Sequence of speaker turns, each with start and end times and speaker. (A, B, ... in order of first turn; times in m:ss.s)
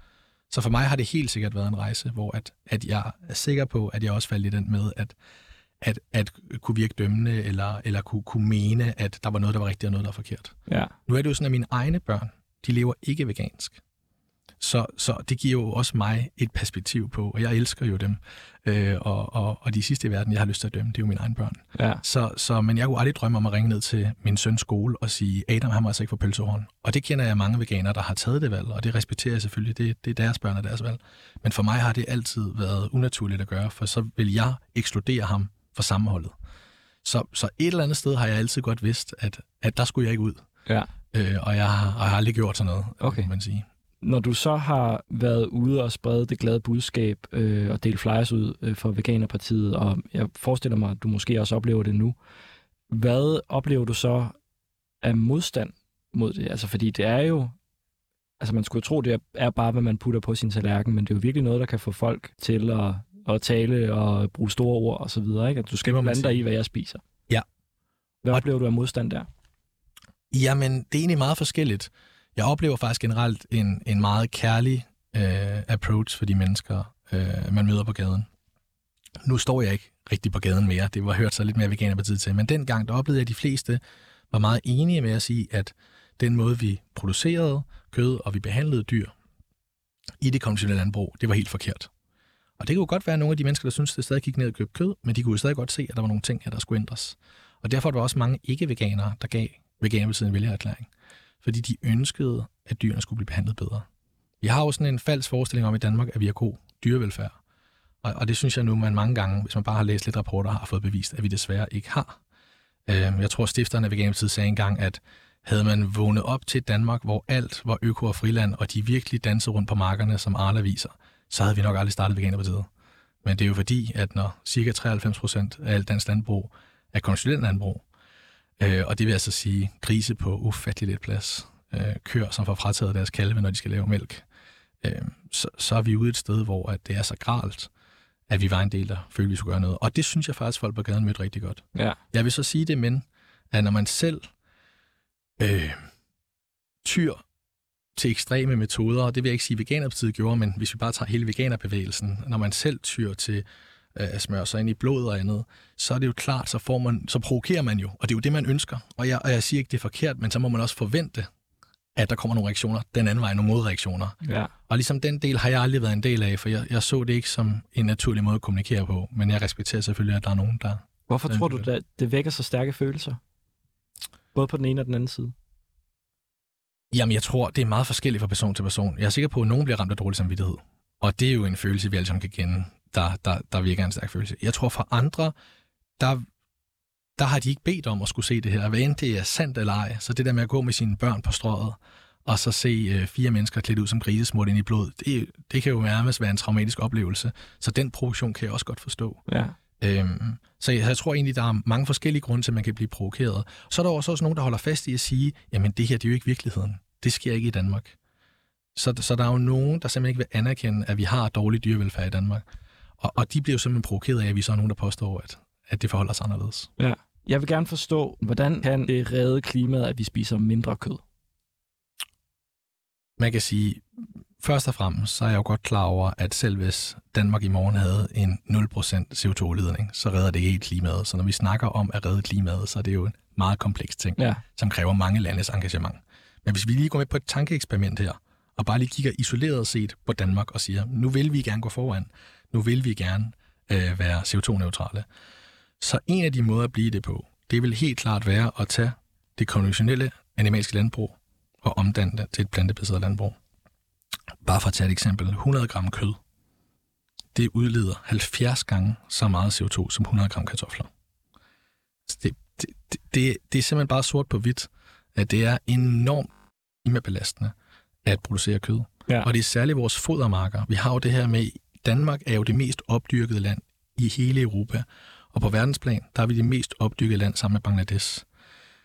0:00.5-0:05.2 A
0:05.8-0:13.8 A
0:10.7-0:10.9 B
0:14.6-0:36.4 A
0:21.8-0:22.0 B
0:37.0-0:40.5 A
0:41.1-0:43.7 A
0:43.0-0:43.3 B
0:44.0-0:52.2 B
0:52.9-0:54.4 B
0:55.0-0:57.6 B
0:58.4-1:07.0 B
1:05.8-1:06.4 A
1:08.2-1:09.3 B
1:10.3-1:18.3 A
1:19.2-1:29.1 A
1:30.2-1:31.9 A
1:32.6-1:40.9 A
1:41.4-1:43.9 A
1:44.4-1:47.4 A
1:48.0-1:52.2 A
1:52.9-2:02.7 A
2:03.2-2:07.8 A
2:08.6-2:14.2 A
2:14.8-2:17.7 A
2:18.3-2:24.3 A
2:25.4-2:25.9 A
2:26.8-2:27.2 A
2:28.0-2:41.3 A
2:42.0-2:44.2 A
2:44.2-2:44.5 B
2:44.7-2:51.7 A
2:51.1-2:53.2 B
2:54.3-2:55.3 B
2:56.9-3:05.4 A
3:06.0-3:06.3 A
3:07.2-3:19.2 A
3:19.3-3:19.6 B
3:19.8-3:28.0 A
3:28.8-3:32.4 A
3:33.0-3:36.7 A
3:36.8-3:41.0 B
3:43.2-3:43.9 A
3:44.4-4:05.1 A
3:54.2-3:54.4 B
4:05.8-4:13.4 A
4:14.4-4:16.2 A
4:17.4-4:20.9 A
4:22.1-4:26.3 A
4:26.8-4:27.5 A
4:28.0-4:38.3 A